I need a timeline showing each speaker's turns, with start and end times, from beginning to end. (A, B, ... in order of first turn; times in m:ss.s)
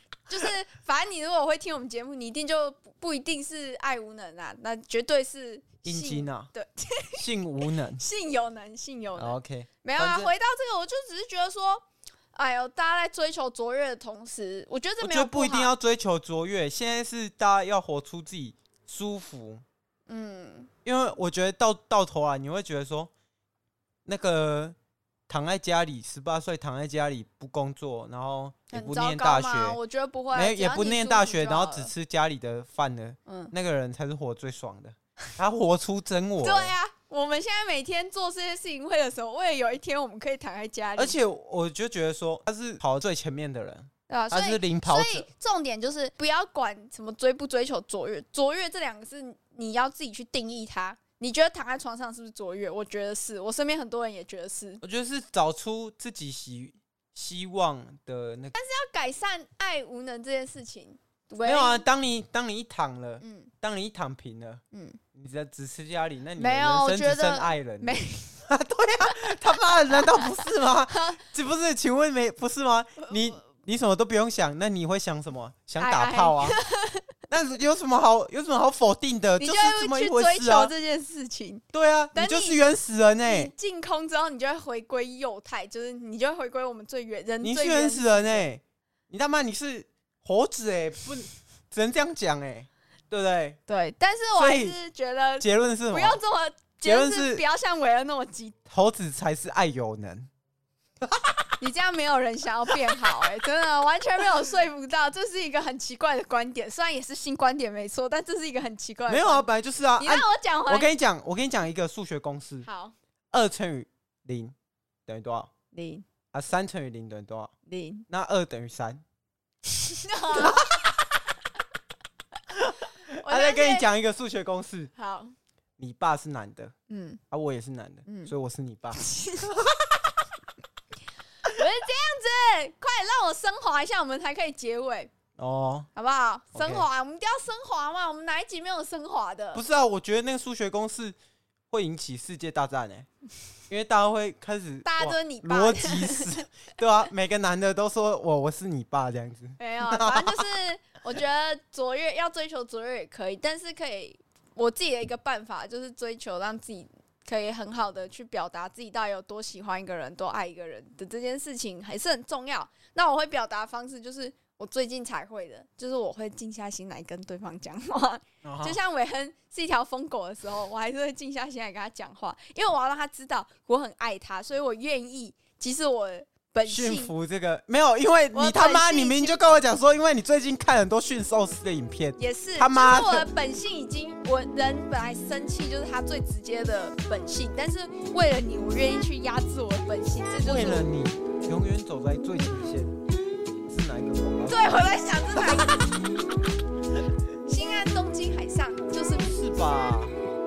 0:00.3-0:07.2 A
0:05.8-0:06.5 B
0:07.1-0:08.0 B
0:07.9-0:15.7 A
0:09.2-0:10.3 B
0:15.0-0:19.6 B
0:20.1-0:20.7 A
0:20.8-0:23.1 B
0:24.0-0:24.8 B
0:25.3-0:29.8 B
0:28.7-0:31.9 A
0:30.3-0:36.7 B
0:33.2-0:33.5 A
0:36.4-0:41.2 A
0:41.0-0:45.3 B
0:44.1-0:54.8 A
0:54.8-0:58.5 B
0:58.5-1:01.8 A
1:01.4-1:04.6 B
1:03.2-1:03.5 A
1:04.7-1:05.0 A
1:05.1-1:16.6 B
1:06.4-1:08.4 A
1:09.9-1:11.2 A
1:15.8-1:17.0 A
1:17.3-1:20.7 B
1:19.4-1:21.6 A
1:21.7-1:23.5 B
1:22.1-1:22.6 A
1:23.2-1:28.4 A
1:27.4-1:33.6 B
1:33.7-1:38.6 A
1:34.3-1:34.8 B
1:35.4-1:36.2 B
1:36.8-1:37.4 B
1:38.7-1:40.3 B
1:41.0-1:41.4 B
1:41.6-1:49.5 A
1:42.7-1:43.0 B
1:49.1-1:52.7 B
1:50.0-1:50.9 A
1:52.6-1:52.9 A
1:53.3-1:54.5 B
1:55.0-1:55.5 B
1:55.7-1:56.0 A
1:56.3-1:57.5 B
1:57.6-1:58.1 A
1:58.1-1:59.0 B
1:59.7-2:00.7 A
2:00.3-2:01.0 B
2:02.5-2:04.9 B
2:03.2-2:03.8 A
2:05.0-2:05.3 A
2:05.8-2:06.7 B
2:06.9-2:07.2 A
2:07.3-2:10.2 B
2:08.0-2:08.3 A
2:08.9-2:09.5 A
2:11.5-2:15.1 A
2:15.4-2:15.9 B
2:15.9-2:19.6 A
2:16.5-2:16.8 B
2:19.5-2:21.1 B
2:21.7-2:23.1 B
2:23.7-2:30.4 B
2:24.8-2:26.4 A
2:29.6-2:57.1 A
2:48.4-2:48.8 B
2:56.6-3:03.3 B
2:58.3-2:59.4 A
3:02.2-3:10.9 A
3:10.4-3:12.9 B
3:13.6-3:15.8 B
3:14.5-3:15.9 A
3:17.4-3:19.3 A
3:19.2-3:20.2 B